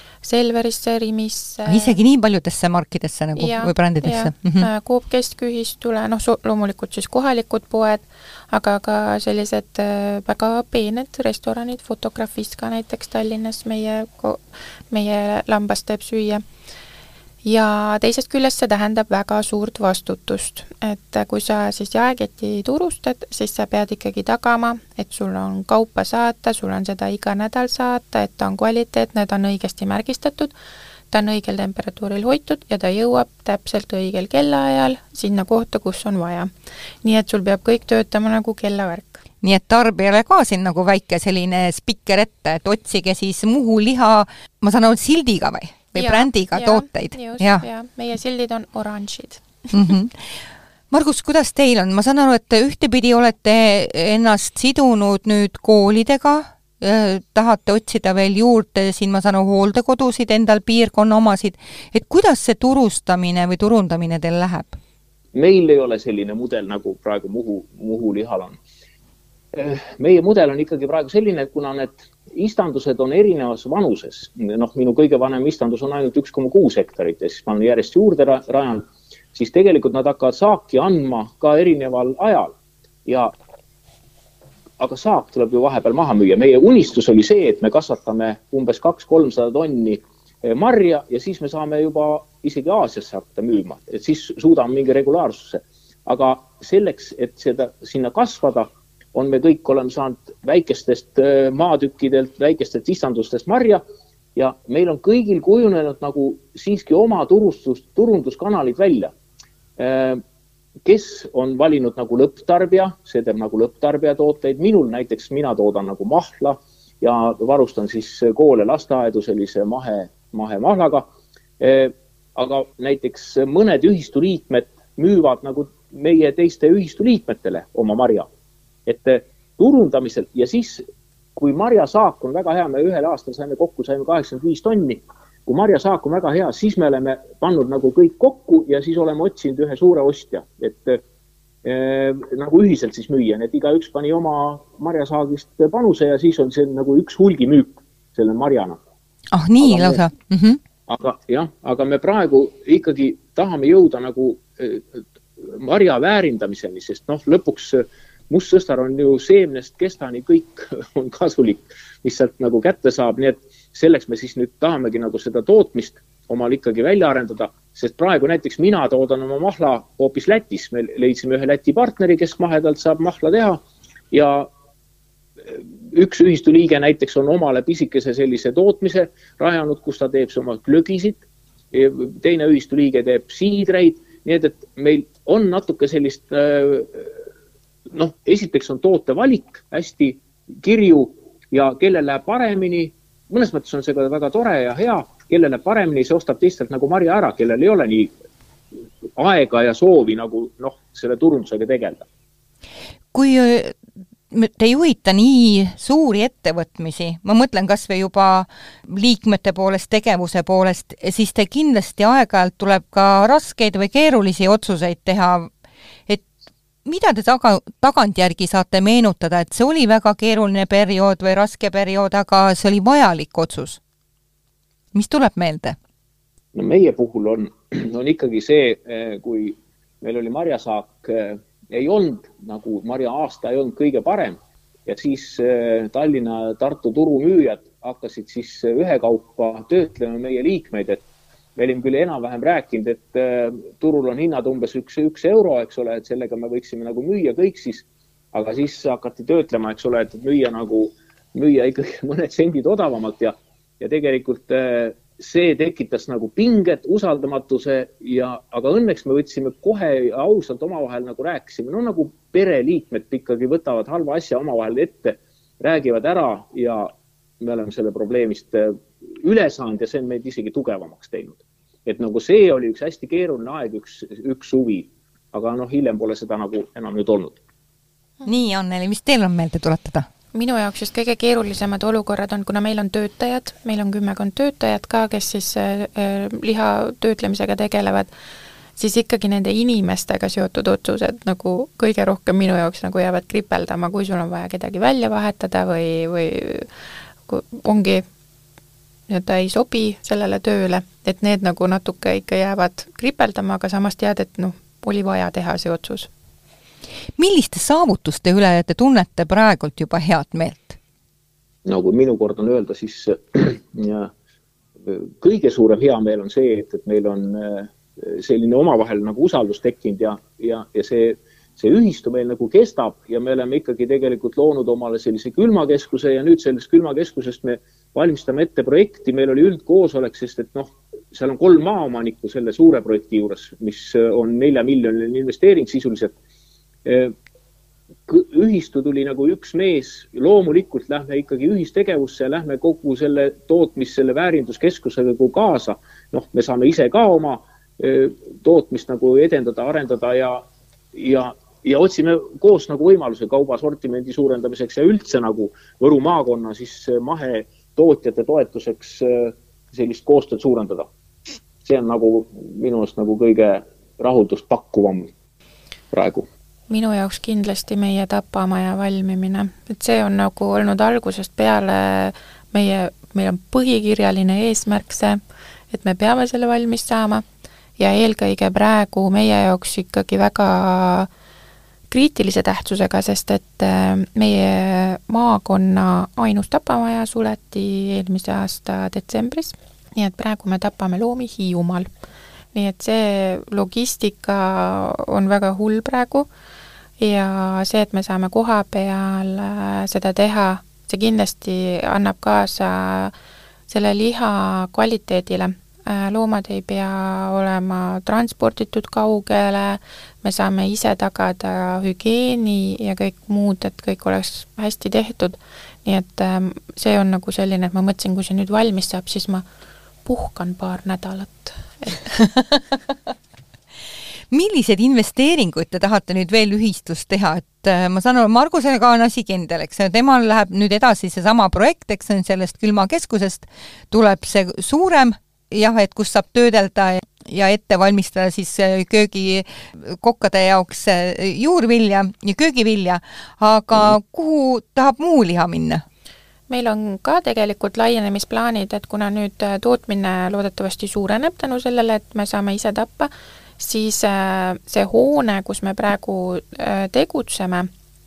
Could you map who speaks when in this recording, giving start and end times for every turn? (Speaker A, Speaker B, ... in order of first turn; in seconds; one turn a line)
Speaker A: 0.2-1.9
Speaker B: 1.6-4.7
Speaker A: 3.4-16.4
Speaker A: 17.4-30.5
Speaker A: 31.1-36.5
Speaker A: 37.0-39.2
Speaker B: 39.4-47.6
Speaker A: 45.9-49.7
Speaker B: 49.7-50.2
Speaker B: 50.9-64.8
Speaker C: 65.3-68.6
Speaker C: 69.5-82.5
Speaker C: 83.0-83.3
Speaker C: 84.8-103.8
Speaker C: 104.3-109.1
Speaker C: 109.8-110.2
Speaker C: 110.8-121.0
Speaker C: 121.6-128.3
Speaker C: 128.8-130.8
Speaker C: 131.3-141.0
Speaker C: 141.6-148.8
Speaker B: 149.3-150.6
Speaker C: 149.6-150.0
Speaker C: 150.9-173.6
Speaker C: 174.1-174.5
Speaker C: 175.5-187.1
Speaker C: 187.9-198.1
Speaker C: 199.2-202.1
Speaker B: 203.1-203.7
Speaker B: 204.3-215.5
Speaker B: 216.8-223.8
Speaker B: 224.9-225.8
Speaker C: 226.5-241.0
Speaker C: 241.6-277.4
Speaker B: 278.2-280.1
Speaker A: 280.3-288.1
Speaker A: 288.8-296.7
Speaker A: 297.3-298.0
Speaker A: 299.1-306.1
Speaker B: 307.2-310.8
Speaker C: 311.6-314.1
Speaker C: 314.9-336.1
Speaker C: 336.8-337.1
Speaker C: 338.1-350.4
Speaker C: 350.9-360.9
Speaker C: 361.6-365.1
Speaker C: 365.9-366.3
Speaker A: 366.7-375.2
Speaker A: 375.7-377.2
Speaker A: 377.8-381.1
Speaker A: 381.9-391.9
Speaker A: 392.5-396.2
Speaker A: 397.0-403.1
Speaker A: 403.7-419.4
Speaker A: 420.0-422.1
Speaker B: 424.3-445.8
Speaker A: 446.5-457.7